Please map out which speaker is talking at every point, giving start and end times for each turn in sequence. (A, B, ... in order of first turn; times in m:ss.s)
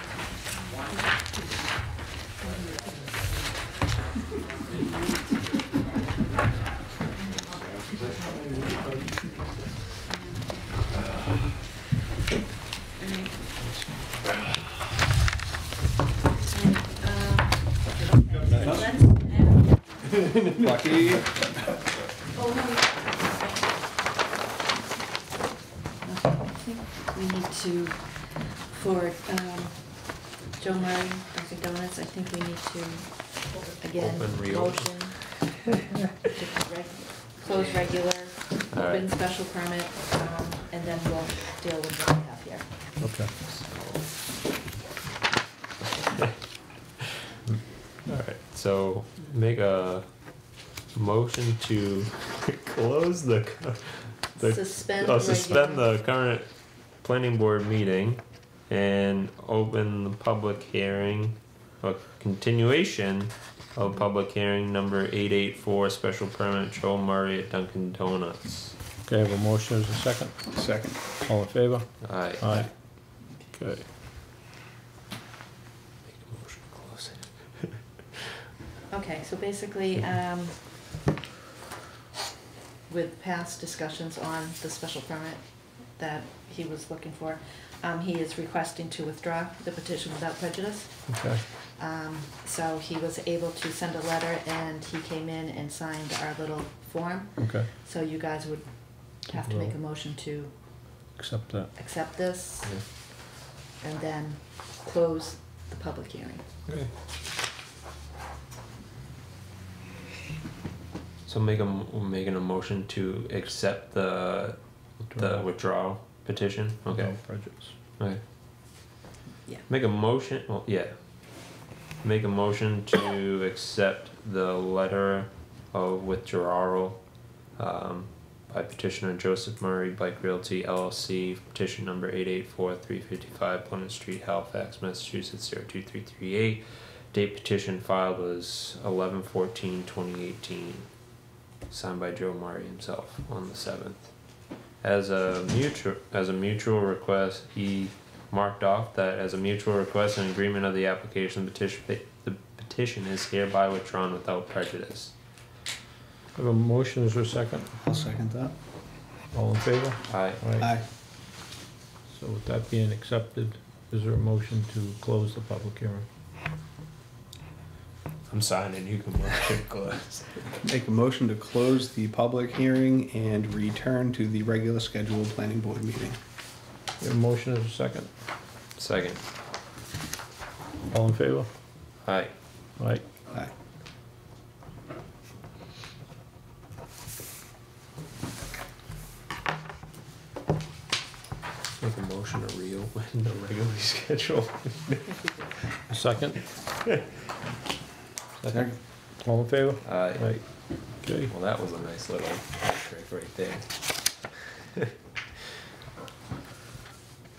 0:00.6-0:01.5 A
0:02.4-0:02.8 A
0:04.7-0:05.5 A
0:10.0-0:10.7 A
0:13.0-0:13.4 A
0:16.4-0:20.1 A
0:18.6-0:19.0 B
0:20.3-0:21.3 B
0:22.3-0:23.7 A
0:26.0-0:35.4 A
0:34.0-0:35.5 C
0:36.3-0:42.8 A
0:38.7-0:39.1 C
0:43.0-0:43.3 D
0:43.4-0:44.2 C
0:48.0-0:50.2 C
0:50.9-1:08.8 C
0:54.4-0:55.9 A
1:09.1-1:10.3 D
1:10.5-1:11.1 B
1:11.2-1:12.7 D
1:12.0-1:12.7 C
1:13.5-1:13.8 D
1:16.1-1:17.8 C
1:18.9-1:20.6 A
1:22.9-1:40.6 A
1:31.1-1:31.4 D
1:37.4-1:37.7 D
1:39.4-1:39.7 D
1:41.2-1:41.7 D
1:41.8-1:42.8 A
1:43.8-1:46.4 A
1:51.2-1:57.3 C
1:55.1-1:55.5 D
1:56.9-1:57.8 D
1:58.0-1:58.2 C
1:59.7-2:07.0 C
2:07.6-2:20.9 C
2:21.7-2:24.1 C
2:24.8-2:35.1 C
2:36.4-2:37.7 D
2:37.8-2:38.5 B
2:39.3-2:40.7 D
2:40.1-2:40.4 C
2:40.6-2:40.8 B
2:42.1-2:46.0 D
2:48.3-2:50.6 C
2:50.6-2:56.2 B
2:57.0-2:58.1 D
2:58.8-2:59.2 C
3:00.9-3:01.5 D
3:02.0-3:02.3 C
3:02.8-3:03.0 D
3:11.8-3:15.1 C
3:15.1-3:15.5 A
3:15.9-3:16.4 D
3:18.4-3:20.4 D
3:19.8-3:24.2 C
3:21.0-3:21.3 D